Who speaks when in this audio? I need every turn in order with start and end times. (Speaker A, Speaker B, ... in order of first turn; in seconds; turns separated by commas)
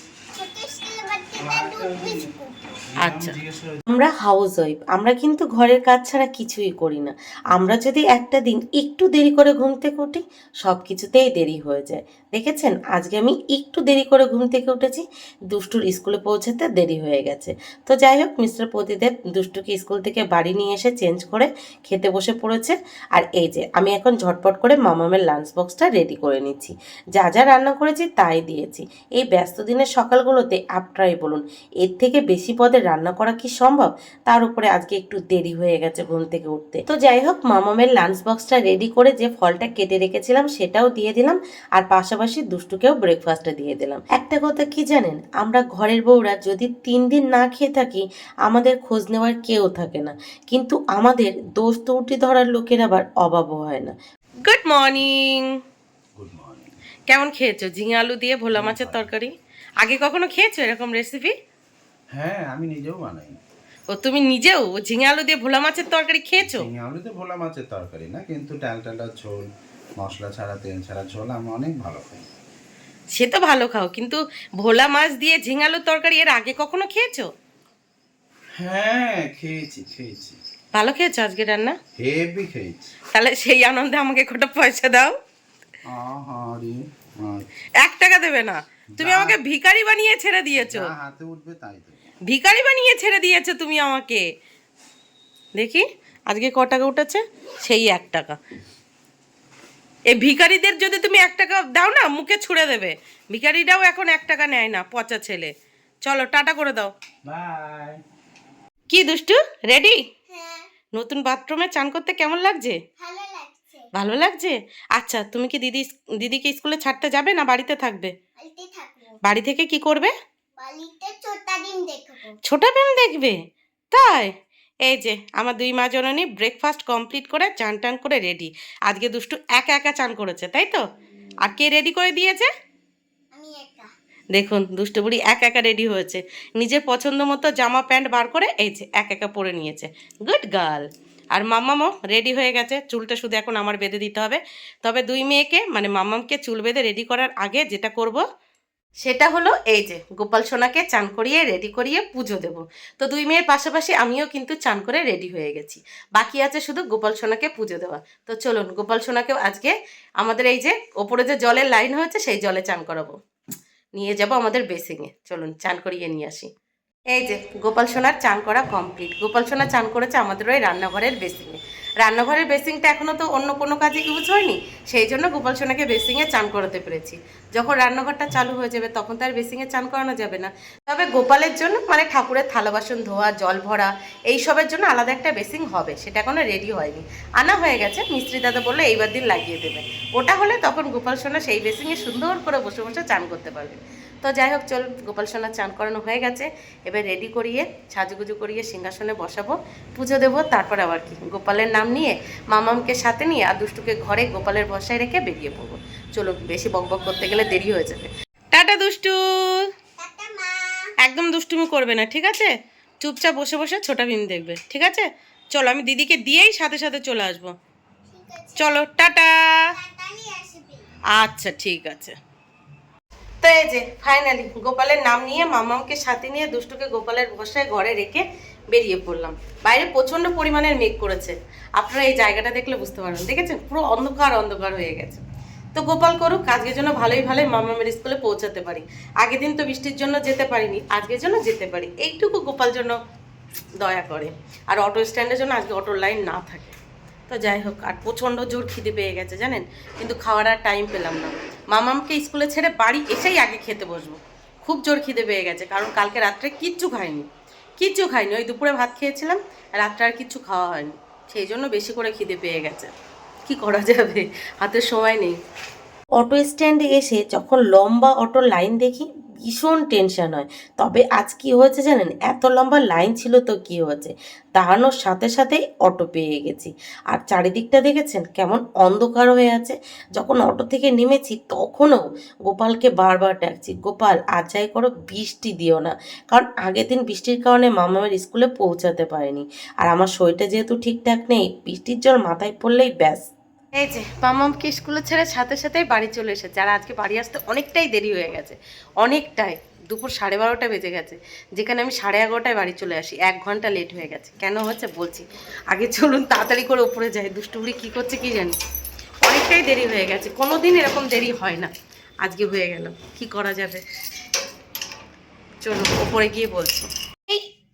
Speaker A: 0.3-2.6, Speaker B: 1.4-2.3, Speaker B: 2.9-3.8, Speaker C: 3.0-55.5, Speaker B: 56.2-56.7, Speaker C: 57.1-61.3, Speaker B: 58.5-59.1, Speaker B: 62.1-63.4, Speaker C: 63.9-66.7, Speaker B: 66.4-69.5, Speaker B: 70.0-72.3, Speaker C: 73.1-77.3, Speaker B: 78.5-80.4, Speaker C: 80.7-81.8, Speaker B: 82.0-82.9, Speaker C: 83.1-85.1, Speaker B: 85.8-87.5, Speaker C: 87.8-90.9, Speaker B: 89.0-89.4, Speaker B: 90.5-92.1, Speaker C: 92.3-94.2, Speaker C: 95.5-98.3, Speaker C: 100.1-105.5, Speaker C: 106.0-106.9, Speaker B: 107.2-108.0, Speaker C: 108.9-110.0, Speaker A: 110.3-110.7, Speaker C: 110.9-112.8, Speaker A: 113.0-113.9, Speaker C: 113.9-118.1, Speaker A: 118.4-119.2, Speaker C: 119.2-120.1, Speaker A: 120.6-122.3, Speaker C: 122.4-123.4, Speaker C: 123.9-124.3, Speaker C: 124.8-130.8, Speaker C: 131.4-132.5, Speaker A: 133.3-133.9, Speaker C: 134.3-148.2, Speaker C: 149.0-163.1, Speaker C: 163.9-166.5, Speaker C: 167.1-209.7, Speaker A: 210.0-210.9, Speaker C: 211.0-217.5, Speaker A: 218.1-219.1, Speaker C: 218.6-219.7, Speaker A: 219.7-220.9, Speaker C: 221.1-222.1, Speaker C: 223.4-235.2, Speaker C: 235.7-242.9, Speaker C: 243.8-246.7, Speaker C: 247.3-257.2, Speaker C: 257.8-262.9, Speaker C: 263.4-265.4, Speaker C: 266.2-293.2, Speaker C: 293.8-308.6, Speaker C: 309.2-311.7, Speaker C: 312.2-313.8, Speaker C: 315.6-317.4